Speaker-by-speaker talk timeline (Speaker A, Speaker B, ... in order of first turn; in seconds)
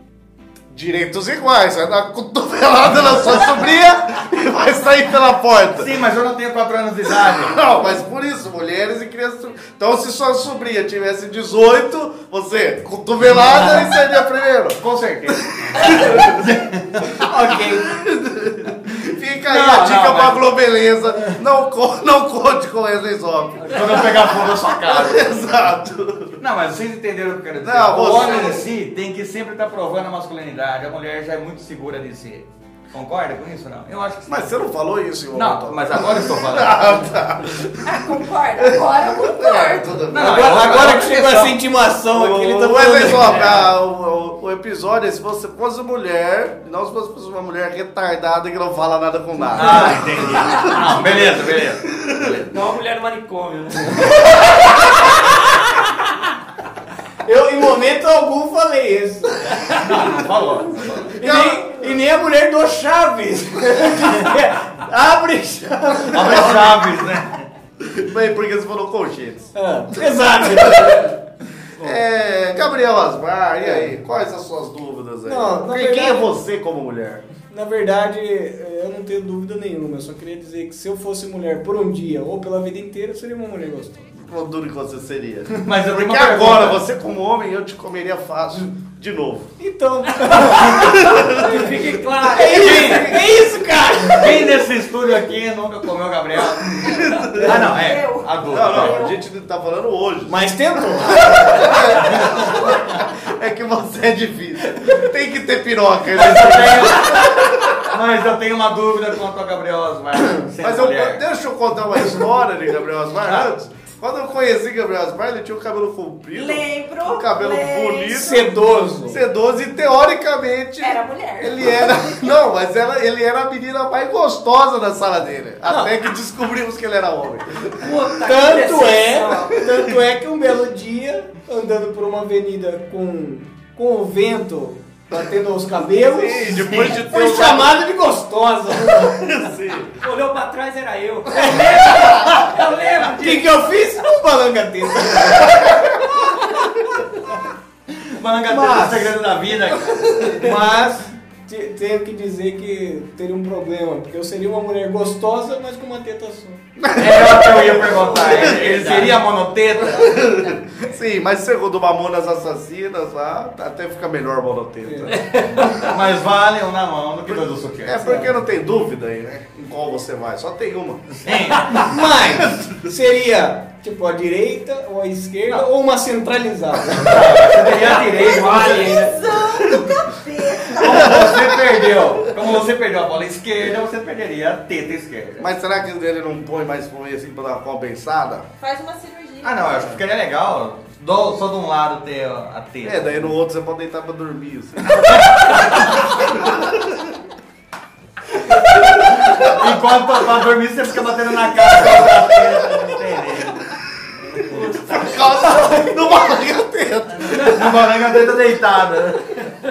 Speaker A: 0.7-6.0, 7.3-14.8, 15.3-16.4, 17.9-26.4, 27.6-28.7, 34.3-41.0, 42.1-51.0, 61.0-61.9, 66.2-66.7, 67.8-69.5, 70.8-71.0, 71.8-77.2, 84.1-89.5, 90.8-91.5, 96.8-97.6, 98.5-100.4, 101.0-107.8, 110.6-118.5, 119.1-128.0, 135.9-137.8, 139.0-140.0, 156.8-159.1, 159.8-165.4, 167.3-171.1, 180.8-181.4, 185.4-188.5, 192.8-196.7, 198.8-199.5, 204.6-207.9
Speaker B: 5.8-7.6, 13.3-13.9, 14.8-17.3, 19.5-20.5, 23.6-25.4, 26.4-34.5, 35.3-37.1, 40.1-41.6, 49.5-52.5, 59.8-61.0, 66.1-67.5, 85.7-86.8, 94.2-99.0, 102.1-102.5, 106.1-111.2, 136.6-136.9, 148.0-150.7, 156.9-160.2, 165.7-168.2, 171.1-171.9, 176.9-179.1, 180.7-185.5, 189.4-193.3, 195.0-196.1, 198.8-203.7, 204.2-204.7, 207.1-209.5
Speaker C: 17.3-17.9, 40.2-43.6, 57.3-59.8, 61.2-66.5, 69.5-71.1, 73.6-73.9, 75.2-76.3, 77.5-84.1, 89.6-91.6, 92.2-94.4, 100.3-101.7, 118.1-119.2, 125.7-126.0, 128.2-139.2, 141.4-141.9, 143.2-145.9, 148.5-149.1, 150.2-156.6, 164.8-165.2, 171.7-177.2
Speaker D: 28.0-28.6, 37.8-40.1, 97.3-99.2, 116.3-118.5, 120.8-122.3, 178.9-181.7, 188.6-190.0
Speaker E: 43.1-43.7, 52.5-55.7, 90.3-93.4, 127.8-129.6, 140.0-143.7, 165.3-165.8, 177.6-179.2, 204.5-205.8